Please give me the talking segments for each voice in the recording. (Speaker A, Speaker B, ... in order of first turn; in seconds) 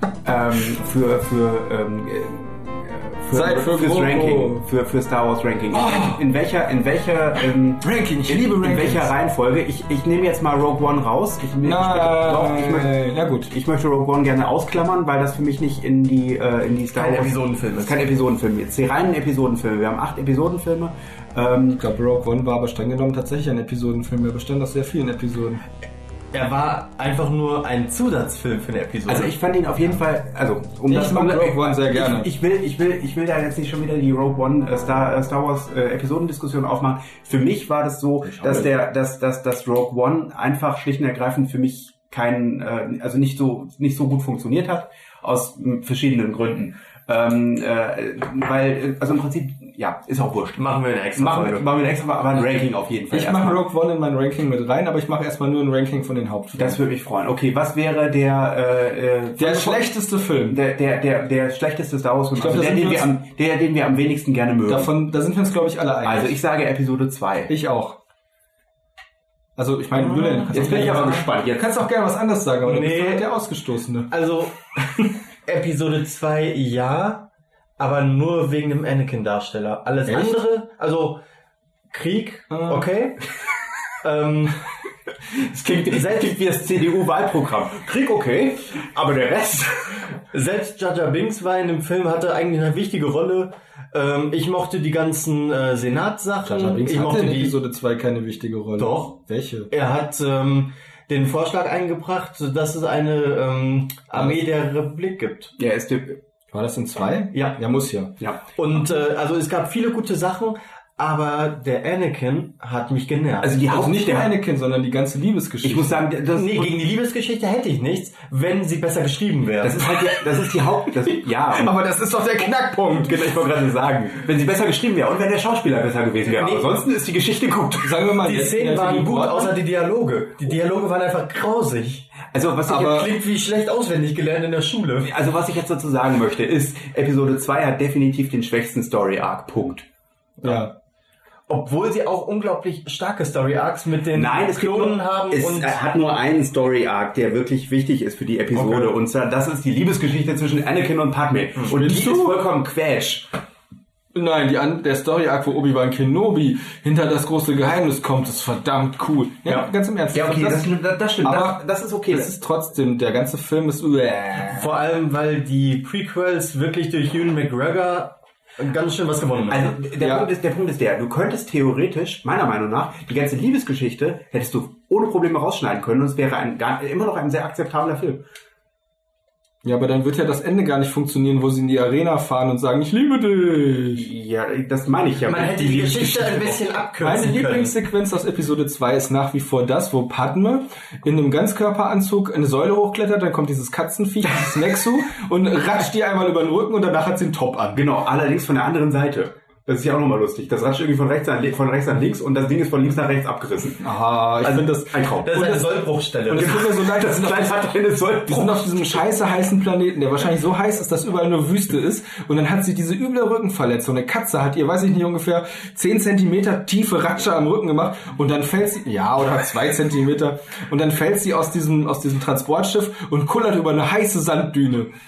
Speaker A: 0.2-13.0, 13.5-21.8, 29.1-50.6, 51.1-53.6, 56.5-64.9, 66.0-67.5, 70.5-71.7, 85.3-90.1, 105.6-106.2, 113.4-114.3, 115.6-116.8, 119.6-121.7, 122.9-128.0, 132.3-133.1, 135.0-139.9, 144.1-153.3, 159.4-162.3, 169.5-178.2, 183.9-186.7, 197.7-203.8, 204.4-205.3, 206.3-209.0
Speaker B: 3.3-4.6, 5.7-6.3, 7.8-9.1, 11.6-13.5, 21.8-25.6, 30.9-32.3, 38.3-38.7, 53.1-56.8, 59.4-60.6, 62.4-63.1, 64.7-66.4, 67.5-68.0, 69.5-74.1, 80.1-80.3, 82.5-82.8, 96.4-99.7, 106.5-108.1, 113.5-116.0, 121.5-123.2, 127.8-129.6, 132.7-133.1, 140.4-140.7, 151.7-152.4, 154.1-164.7, 170.0-170.3, 179.6-184.0, 187.0-197.8, 203.8-205.7, 206.2-207.5, 208.3-224.9
Speaker C: 16.9-18.0, 26.3-29.3, 50.6-51.7, 69.9-71.2, 72.6-73.4, 74.1-77.3, 77.8-81.2, 81.9-83.2, 84.0-84.6, 85.9-86.3, 87.9-88.6, 90.3-97.5, 98.8-99.2, 99.7-105.5, 107.3-107.6, 108.5-113.5, 116.3-119.9, 126.4-126.8, 128.2-132.1, 132.7-135.1, 141.5-145.8, 148.5-148.9, 164.4-169.8, 185.3-187.7, 205.2-206.6